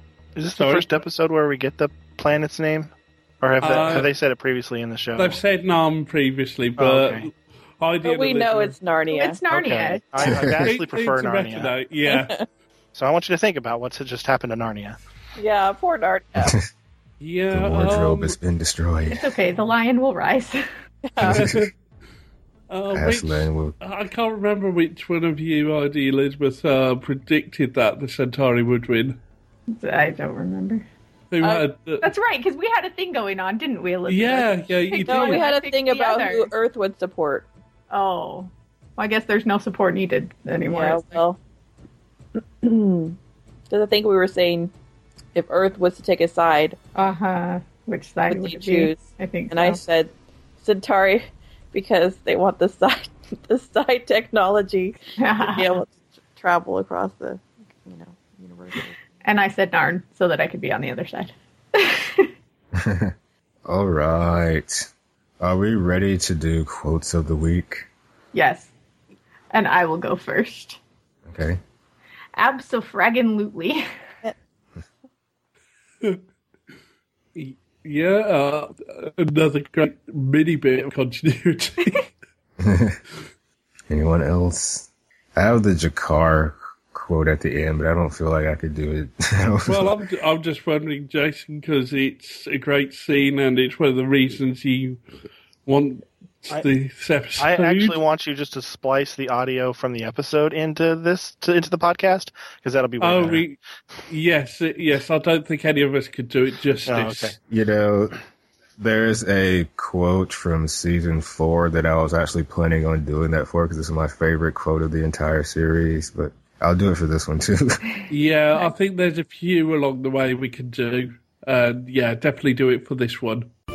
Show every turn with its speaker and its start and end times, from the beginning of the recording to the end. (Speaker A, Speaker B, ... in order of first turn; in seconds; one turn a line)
Speaker A: 0.3-5.4
Speaker B: 0.5-0.9
Speaker B: 3.6-4.1
Speaker B: 5.2-8.7
Speaker A: 6.8-7.3
Speaker C: 8.0-9.4
Speaker D: 9.1-10.0
Speaker A: 9.5-11.7
Speaker E: 10.2-10.6
Speaker B: 10.6-12.3
Speaker C: 12.1-12.4
Speaker A: 12.9-15.0
Speaker C: 15.3-16.6
Speaker B: 17.2-18.4
Speaker E: 17.5-19.3
Speaker D: 19.1-20.6
Speaker C: 21.1-21.4
Speaker E: 21.2-21.7
Speaker B: 21.2-21.7
Speaker B: 22.7-29.2
Speaker E: 22.9-23.8
Speaker D: 29.8-30.9
Speaker B: 31.3-32.1
Speaker D: 32.0-36.5
Speaker B: 34.1-35.5
Speaker C: 35.1-37.5
Speaker D: 37.9-41.2
Speaker C: 40.6-41.4
Speaker C: 42.6-43.1
Speaker C: 43.7-44.7
Speaker C: 45.3-46.8
Speaker D: 47.0-49.8
Speaker C: 48.3-58.9
Speaker D: 55.2-55.8
Speaker D: 59.2-62.3
Speaker E: 62.8-63.1
Speaker E: 63.6-67.9
Speaker D: 68.3-68.7
Speaker D: 69.5-70.8
Speaker E: 71.2-71.6
Speaker D: 72.3-73.8
Speaker B: 77.3-82.0
Speaker E: 82.6-83.0
Speaker E: 83.9-89.9
Speaker B: 89.7-95.0
Speaker B: 95.7-98.0
Speaker A: 97.4-103.5
Speaker B: 103.0-107.3
Speaker A: 106.9-107.4
Speaker E: 107.5-108.1
Speaker E: 108.8-117.8
Speaker B: 118.1-123.5